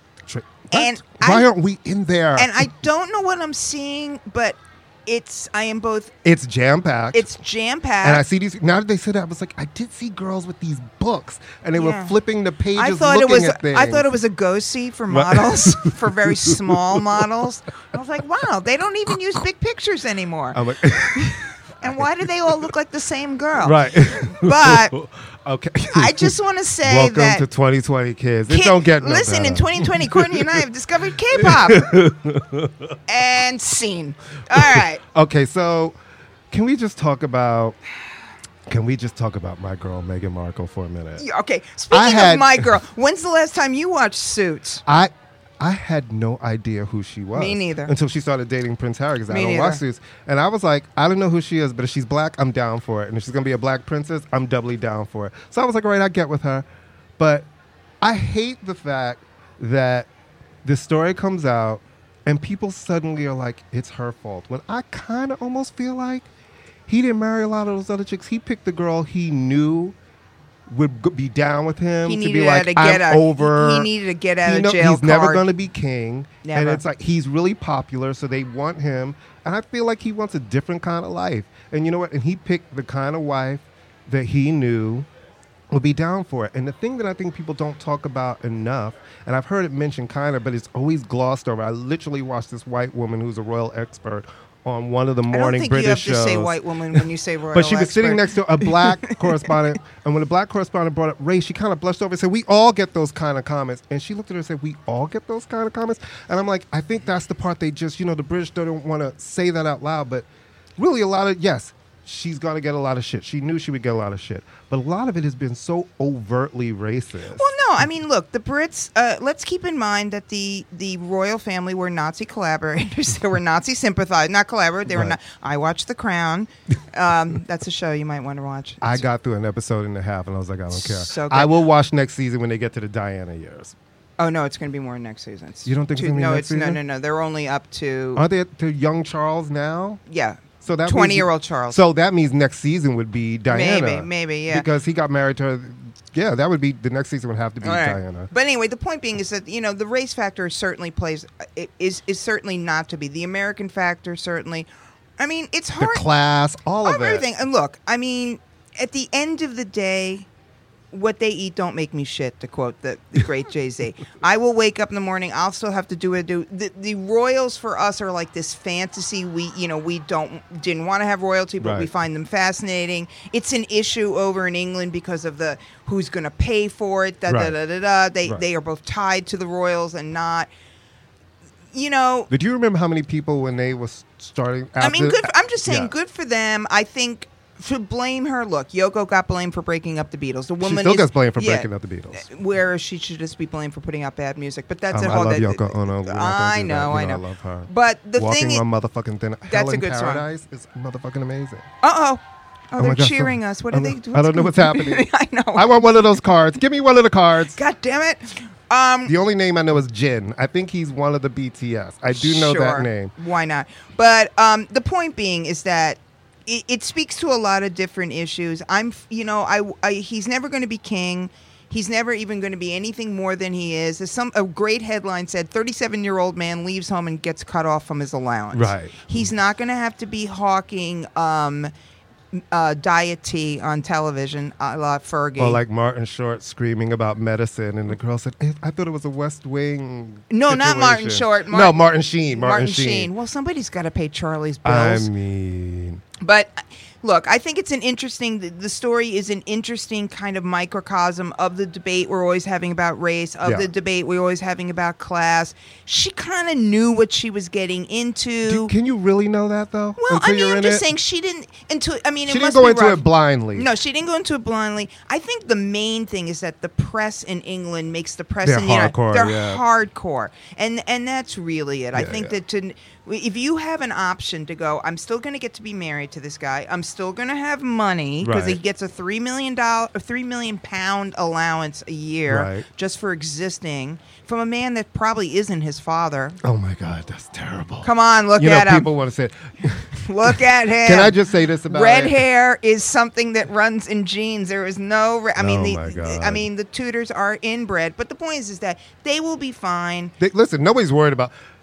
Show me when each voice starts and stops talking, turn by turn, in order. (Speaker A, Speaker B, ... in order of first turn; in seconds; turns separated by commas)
Speaker A: 0.2-2.5, Speaker B: 0.7-1.5, Speaker B: 2.4-6.1, Speaker A: 6.2-7.3, Speaker B: 7.1-8.2, Speaker A: 8.0-14.1, Speaker B: 11.8-12.2, Speaker B: 12.8-25.0, Speaker A: 15.1-17.3, Speaker A: 20.5-22.1, Speaker A: 23.6-30.7, Speaker B: 25.9-27.4, Speaker B: 28.5-31.9, Speaker A: 31.3-33.0, Speaker B: 33.1-35.0, Speaker A: 34.5-36.0, Speaker A: 36.5-37.8, Speaker A: 38.7-41.2, Speaker B: 41.2-44.8, Speaker A: 41.9-42.8, Speaker A: 44.9-56.7, Speaker B: 47.4-47.9, Speaker B: 49.3-49.8, Speaker A: 57.2-57.5, Speaker A: 58.0-60.1, Speaker A: 60.6-66.3, Speaker A: 66.9-70.0, Speaker A: 70.7-73.9, Speaker B: 72.0-75.5, Speaker A: 74.4-85.1, Speaker B: 76.4-76.8, Speaker A: 85.7-110.3, Speaker B: 95.3-99.5, Speaker A: 110.8-117.5, Speaker B: 117.4-129.0, Speaker A: 124.9-125.2, Speaker A: 128.8-133.8, Speaker B: 130.7-131.6, Speaker B: 134.2-138.2, Speaker A: 135.7-136.8, Speaker A: 138.2-140.0, Speaker B: 140.1-141.8, Speaker A: 140.6-148.3, Speaker B: 143.5-144.7, Speaker B: 147.6-156.1, Speaker A: 155.8-157.3, Speaker B: 156.8-160.3, Speaker B: 160.9-180.5, Speaker A: 171.6-171.9, Speaker A: 177.3-177.6, Speaker B: 181.7-182.3, Speaker A: 182.3-185.9, Speaker B: 184.8-198.7, Speaker A: 190.6-192.3, Speaker A: 194.9-201.7, Speaker B: 199.5-200.2, Speaker B: 201.8-205.8, Speaker A: 202.8-207.6, Speaker B: 207.5-209.2, Speaker A: 209.1-213.1, Speaker B: 212.1-231.7, Speaker A: 228.5-229.3, Speaker B: 232.3-235.6, Speaker A: 235.4-243.1, Speaker B: 240.3-245.1, Speaker A: 244.6-246.0, Speaker B: 246.2-258.7, Speaker A: 253.4-253.7, Speaker A: 258.5-260.9, Speaker B: 260.0-286.4, Speaker A: 262.3-263.7, Speaker A: 268.4-269.6, Speaker A: 271.9-272.4, Speaker A: 278.2-278.6, Speaker A: 282.3-282.7, Speaker A: 286.4-292.2, Speaker B: 287.8-288.9, Speaker B: 289.9-291.2, Speaker B: 291.7-300.1, Speaker A: 295.4-296.5, Speaker A: 300.2-301.3